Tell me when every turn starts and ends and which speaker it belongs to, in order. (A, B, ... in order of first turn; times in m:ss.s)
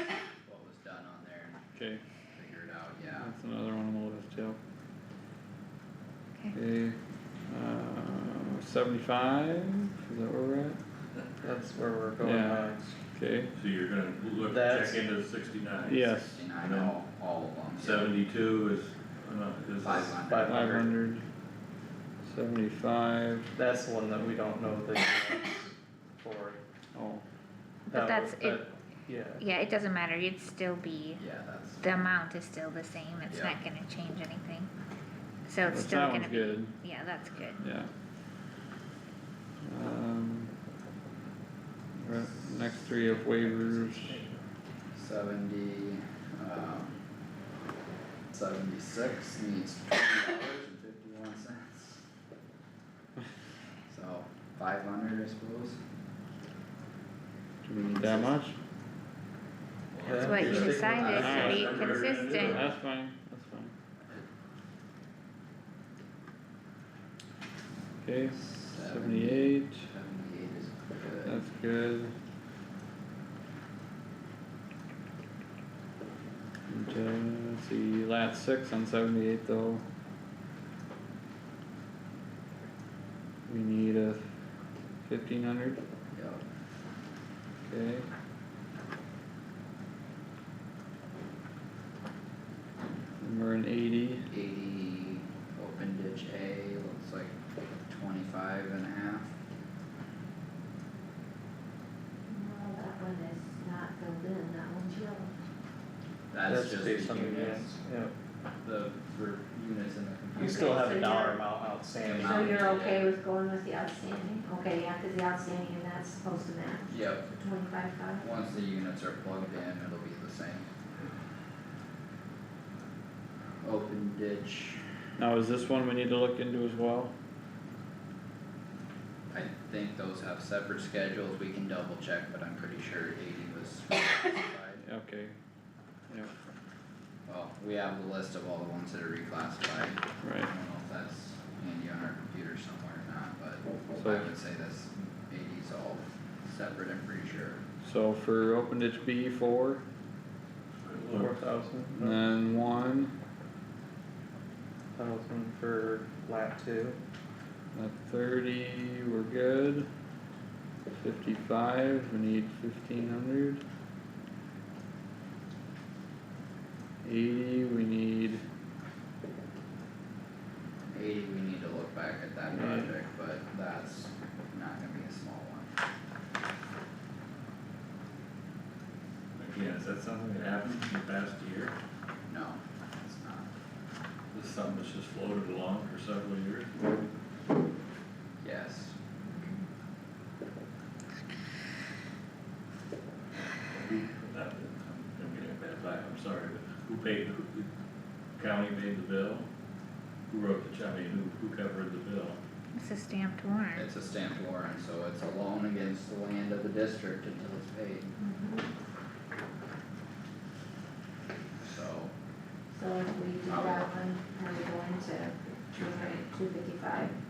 0:00.4-0:01.6 A
0:01.8-0:02.0 B
0:02.3-0:03.3 A
0:03.1-0:04.6 B
0:06.5-0:10.8 B
0:11.4-0:12.8 C
0:12.2-0:13.5 B
0:13.6-0:17.0 D
0:14.4-0:15.1 C
0:15.8-0:16.4 B
0:16.3-0:18.1 A
0:17.8-0:20.3 D
0:19.8-0:20.8 A
0:20.2-0:20.9 C
0:20.4-0:21.2 B
0:22.2-0:23.5 B
0:23.5-0:26.6 C
0:26.9-0:27.2 B
0:27.9-0:28.6 E
0:27.9-0:29.4 C
0:29.4-0:31.2 E
0:31.2-0:32.2 A
0:31.8-0:34.7 E
0:33.3-0:33.6 A
0:35.5-0:37.6 E
0:35.7-0:36.8 B
0:37.6-0:37.9 B
0:39.6-0:40.5 B
0:42.0-0:44.2 B
0:43.2-0:44.4 C
0:45.0-0:47.0 A
0:48.3-0:52.0 A
0:53.9-0:55.8 A
0:57.6-0:58.6 B
0:58.0-0:58.3 A
0:59.9-1:02.7 D
1:00.0-1:01.1 C
1:00.1-1:02.6 E
1:00.1-1:02.0 A
1:01.1-1:03.7 B
1:08.0-1:09.9 B
1:08.3-1:11.4 A
1:11.2-1:12.1 B
1:16.7-1:19.8 B
1:23.5-1:24.2 B
1:25.0-1:25.8 B
1:26.1-1:26.4 A
1:27.6-1:28.1 B
1:33.2-1:34.3 B
1:34.3-1:37.3 A
1:37.9-1:39.3 A
1:42.3-1:45.3 F
1:46.3-1:47.8 A
1:46.4-1:48.1 C
1:48.6-1:51.2 A
1:50.4-1:51.4 F
1:50.4-1:52.5 C
1:52.0-1:53.1 A
1:52.1-1:58.2 F
1:56.9-1:57.3 A
1:58.2-2:00.7 A
2:03.6-2:04.8 A
2:05.2-2:07.1 B
2:09.3-2:14.8 A
2:14.8-2:15.4 B
2:17.3-2:27.6 A
2:20.2-2:20.5 B
2:24.0-2:24.3 B
2:27.8-2:29.8 B
2:30.8-2:31.4 D
2:31.1-2:32.2 C
2:31.9-2:33.1 B
2:35.0-2:37.0 C
2:37.7-2:39.9 B
2:40.9-2:43.6 B
2:47.0-2:48.4 B
2:50.9-2:55.7 A
2:52.5-2:52.9 B
2:59.4-3:01.7 D
3:02.3-3:03.5 A
3:04.3-3:06.7 D
3:08.4-3:09.0 A
3:13.6-3:17.7 D
3:18.4-3:19.5 D
3:20.3-3:22.4 D
3:22.8-3:23.8 E
3:23.8-3:28.2 A
3:28.2-3:28.7 F
3:31.6-3:32.1 A
3:32.7-3:37.1 F
3:33.5-3:34.0 A